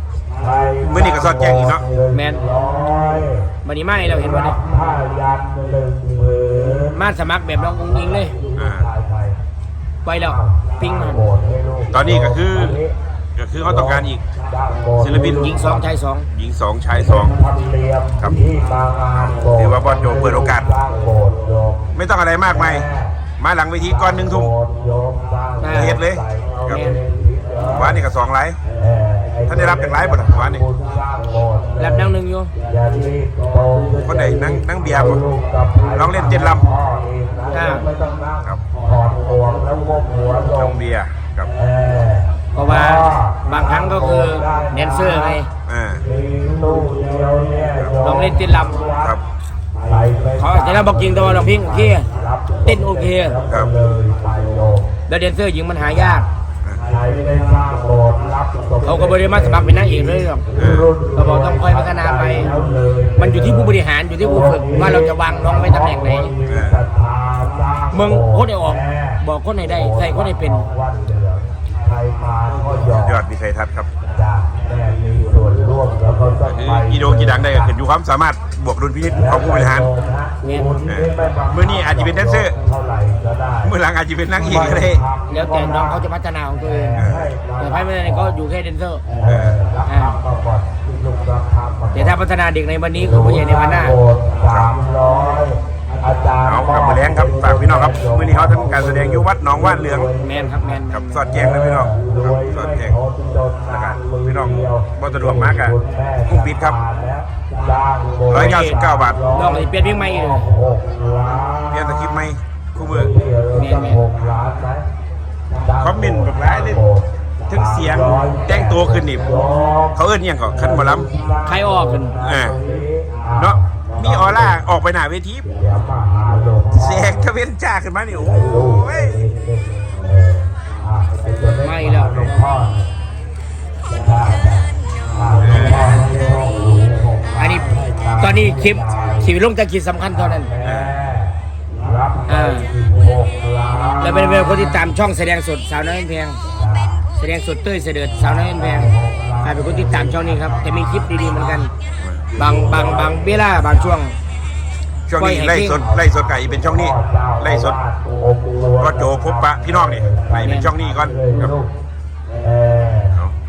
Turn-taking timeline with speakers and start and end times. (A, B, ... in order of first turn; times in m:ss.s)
0:00.4-0:03.5 A
0:00.9-0:01.8 B
0:02.1-0:02.4 C
0:03.6-0:04.6 C
0:04.0-0:07.0 A
0:06.9-0:08.3 C
0:07.6-0:09.4 A
0:08.6-0:08.9 B
0:10.0-0:11.2 C
0:10.2-0:12.9 A
0:11.9-0:12.8 B
0:13.4-0:14.2 B
0:13.7-0:15.8 A
0:15.0-0:15.6 B
0:15.3-0:16.3 C
0:16.3-0:17.4 B
0:16.9-0:21.9 A
0:19.2-0:20.7 B
0:21.9-0:22.9 B
0:22.5-0:23.2 A
0:23.4-0:24.5 B
0:23.9-0:28.0 A
0:25.6-0:26.0 C
0:25.7-0:26.8 B
0:26.7-0:27.0 C
0:27.7-0:28.6 B
0:28.8-0:32.1 A
0:29.4-0:30.7 B
0:31.8-0:32.5 C
0:32.7-0:40.8 A
0:34.0-0:35.2 B
0:35.9-0:36.7 B
0:37.5-0:37.9 C
0:40.5-0:41.5 B
0:41.6-0:45.4 A
0:42.5-0:45.5 C
0:45.7-0:46.0 B
0:46.0-0:49.2 A
0:48.0-0:48.8 C
0:49.9-0:54.9 A
0:50.4-0:52.1 C
0:52.6-0:53.4 C
0:55.1-0:56.2 C
0:56.0-0:56.3 A
0:56.8-1:13.2 A
0:58.8-1:00.5 C
1:00.6-1:00.9 B
1:01.2-1:02.5 C
1:03.2-1:06.4 C
1:06.4-1:06.8 B
1:07.9-1:10.6 C
1:12.9-1:13.9 B
1:14.1-1:17.7 A
1:16.4-1:19.9 B
1:19.1-1:23.7 A
1:20.5-1:20.8 C
1:20.8-1:22.6 B
1:23.6-1:25.0 B
1:24.4-1:26.1 A
1:25.3-1:27.1 C
1:26.6-1:28.4 A
1:27.0-1:27.3 B
1:27.6-1:29.0 C
1:29.2-1:32.1 A
1:29.2-1:29.6 B
1:29.9-1:30.2 C
1:31.9-1:34.0 C
1:33.0-1:52.2 A
1:34.5-1:34.8 B
1:36.4-1:40.1 B
1:40.2-1:41.3 C
1:40.9-1:43.0 B
1:43.7-1:46.8 B
1:48.3-1:49.3 B
1:48.3-1:50.5 C
1:51.7-1:53.1 B
1:52.8-1:54.8 A
1:53.5-1:54.0 C
1:55.6-2:00.0 A
1:55.8-1:56.8 B
1:57.5-1:59.2 B
1:59.9-2:01.1 B
2:00.5-2:04.5 A
2:01.4-2:02.2 C
2:02.2-2:02.6 B
2:03.4-2:05.5 B
2:05.6-2:07.3 A
2:06.7-2:09.2 B
2:08.2-2:12.8 A
2:11.6-2:12.2 C
2:13.9-2:19.3 A
2:15.4-2:16.0 B
2:17.4-2:20.5 C
2:20.2-2:24.9 A
2:20.6-2:20.9 B
2:22.3-2:22.7 C
2:24.0-2:26.4 C
2:26.5-2:27.0 A
2:27.1-2:31.7 C
2:28.2-2:31.6 A
2:32.0-2:32.2 B
2:32.4-2:33.9 A
2:32.4-2:34.1 C
2:35.1-2:37.8 B
2:35.2-2:35.8 C
2:35.8-2:41.7 A
2:38.8-2:41.5 B
2:40.4-2:40.7 C
2:42.4-2:43.2 A